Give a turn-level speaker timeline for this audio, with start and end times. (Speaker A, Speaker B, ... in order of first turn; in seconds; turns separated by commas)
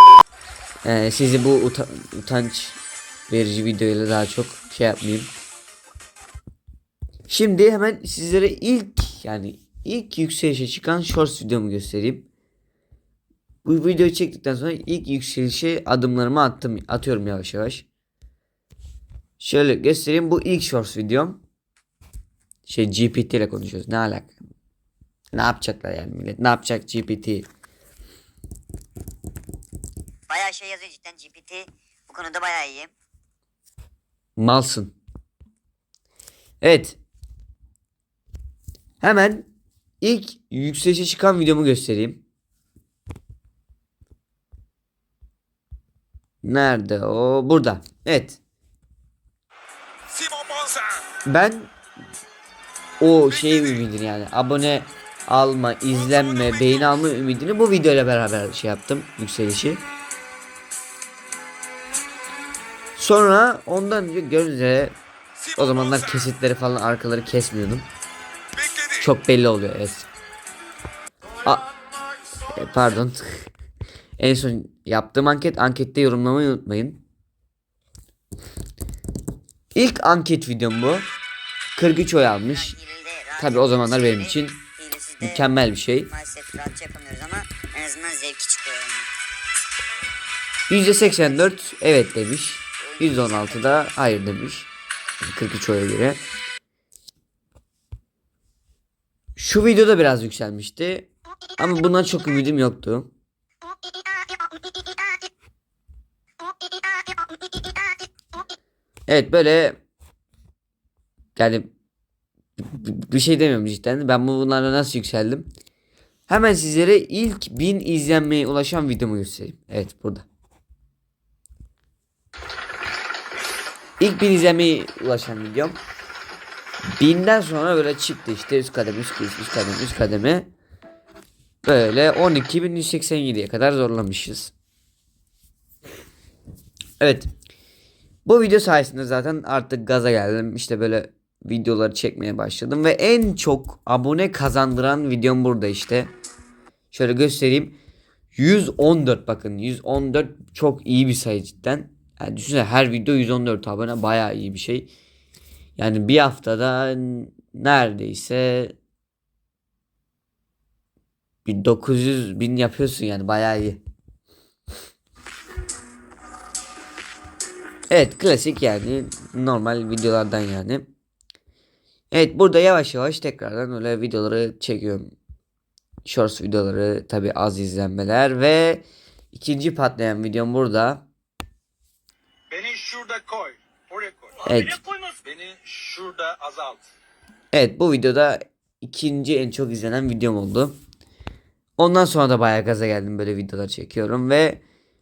Speaker A: 0.8-5.3, Speaker A: 7.3-12.3, Speaker A: 13.6-17.9, Speaker A: 19.4-21.4, Speaker A: 22.6-24.4, Speaker A: 25.3-27.5, Speaker B: 30.3-32.9, Speaker A: 34.4-34.9, Speaker A: 36.6-37.0, Speaker A: 39.0-39.5, Speaker A: 40.0-42.2, Speaker A: 46.4-48.4, Speaker A: 51.2-51.7, Speaker A: 53.0-59.8, Speaker A: 63.0-64.9, Speaker A: 65.5-67.9, Speaker A: 68.9-70.1, Speaker A: 72.5-73.5, Speaker A: 74.2-77.0, Speaker A: 79.7-81.1, Speaker A: 81.7-82.8, Speaker B: 82.7-85.2, Speaker A: 83.4-84.6, Speaker A: 85.2-86.1, Speaker B: 86.1-89.1, Speaker A: 90.7-94.7, Speaker A: 95.2-96.2, Speaker A: 99.3-103.1, Speaker B: 106.7-107.7, Speaker A: 109.1-109.8, Speaker A: 111.3-111.7, Speaker A: 112.6-115.5, Speaker A: 116.3-120.3, Speaker A: 124.0-125.8, Speaker A: 127.0-130.5, Speaker A: 131.6-134.5, Speaker A: 137.0-137.3, Speaker A: 138.2-146.1, Speaker A: 146.9-147.8, Speaker A: 148.3-154.9, Speaker A: 155.8-158.8, Speaker A: 161.4-163.8, Speaker A: 167.9-170.8, Speaker A: 172.1-175.1, Speaker A: 176.0-181.0, Speaker C: 182.5-184.4, Speaker A: 184.4-184.8, Speaker C: 185.2-186.8, Speaker A: 187.5-190.8, Speaker A: 191.8-194.6